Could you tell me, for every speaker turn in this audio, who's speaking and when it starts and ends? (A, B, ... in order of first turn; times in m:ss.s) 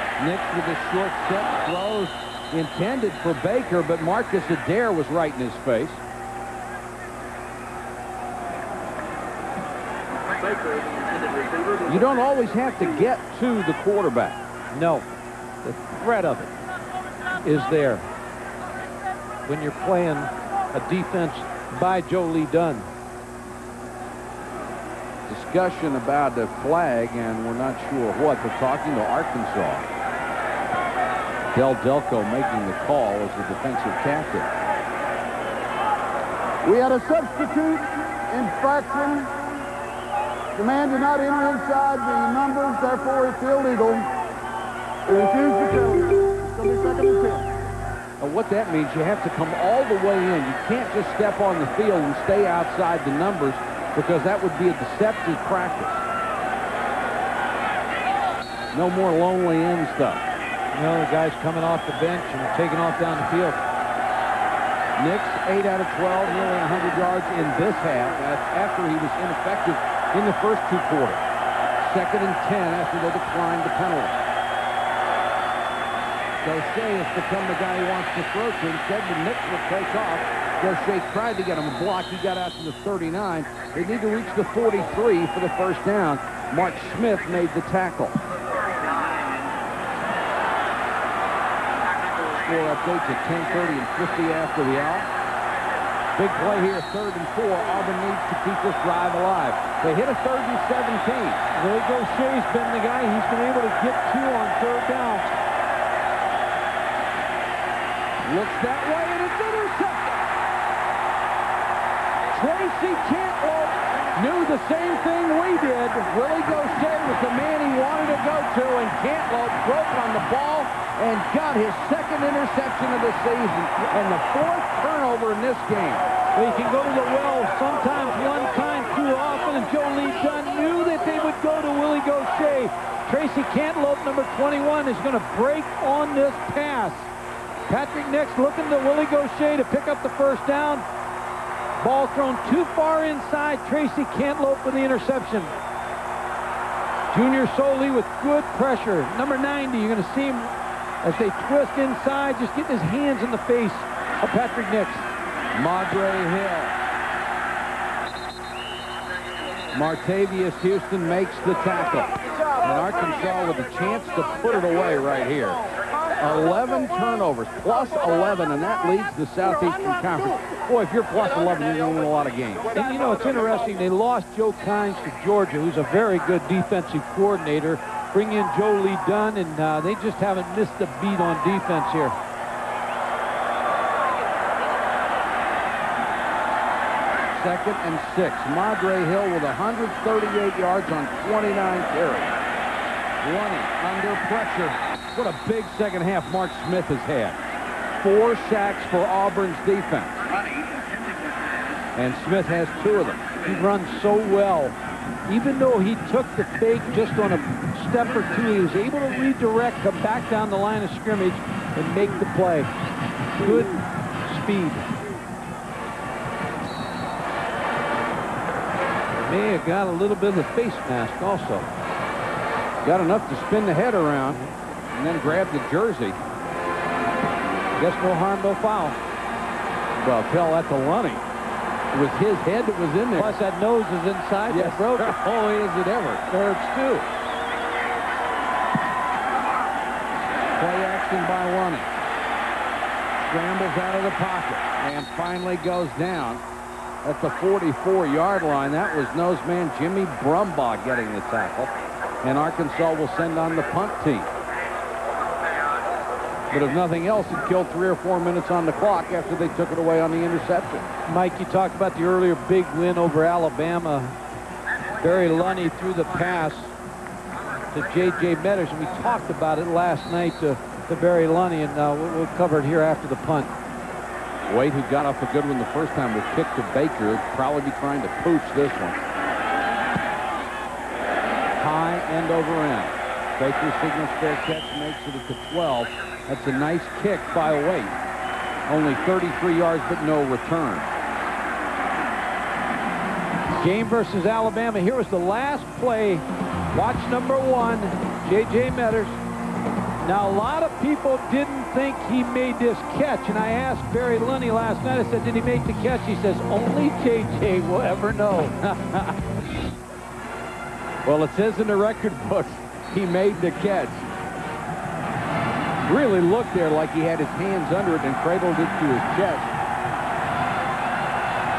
0:00.2-0:06.0 A
0:11.9-0:14.4 A
0:14.7-0:15.0 B
0:15.6-0:16.5 B
0:17.4-0:18.0 B
0:19.5-0:22.9 B
0:25.3-0:29.8 A
0:31.5-0:34.5 A
0:36.6-0:39.3 C
0:40.6-0:44.1 C
0:45.1-0:47.5 C
0:48.2-0:56.0 A
0:58.7-1:00.2 A
1:00.7-1:03.6 B
1:05.0-1:11.2 A
1:11.8-1:14.2 A
1:16.4-1:28.2 A
1:32.3-1:35.1 A
1:36.2-1:41.4 A
1:41.5-1:45.4 B
1:48.2-1:50.2 A
1:52.3-2:06.1 A
2:06.4-2:17.1 B
2:17.7-2:20.8 B
2:21.8-2:25.5 B
2:27.1-2:30.5 B
2:31.0-2:35.1 B
2:35.6-2:36.7 A
2:39.7-2:45.7 A
2:46.2-2:52.7 A
2:52.7-3:02.2 B
3:07.3-3:12.3 A
3:13.2-3:17.4 A
3:18.0-3:20.2 A
3:22.0-3:23.3 A
3:23.4-3:24.8 B
3:25.3-3:32.7 B
3:33.4-3:34.9 B
3:39.2-3:41.7 B
3:42.8-3:46.2 A
3:47.8-3:49.0 B
3:50.0-3:51.2 A
3:51.9-3:53.4 A
3:53.2-3:55.1 B
3:54.5-3:56.2 A
3:56.3-3:57.1 B
4:00.6-4:01.9 A
4:03.2-4:06.4 A
4:07.0-4:11.7 A
4:12.2-4:14.3 A
4:16.5-4:20.9 A
4:21.1-4:24.2 B
4:25.0-4:26.7 B
4:27.7-4:33.5 B
4:34.5-4:39.0 A
4:41.6-4:48.0 A
4:48.7-4:50.9 A
4:53.6-4:59.2 B
5:00.0-5:09.1 B
5:11.0-5:14.0 A
5:15.9-5:19.5 A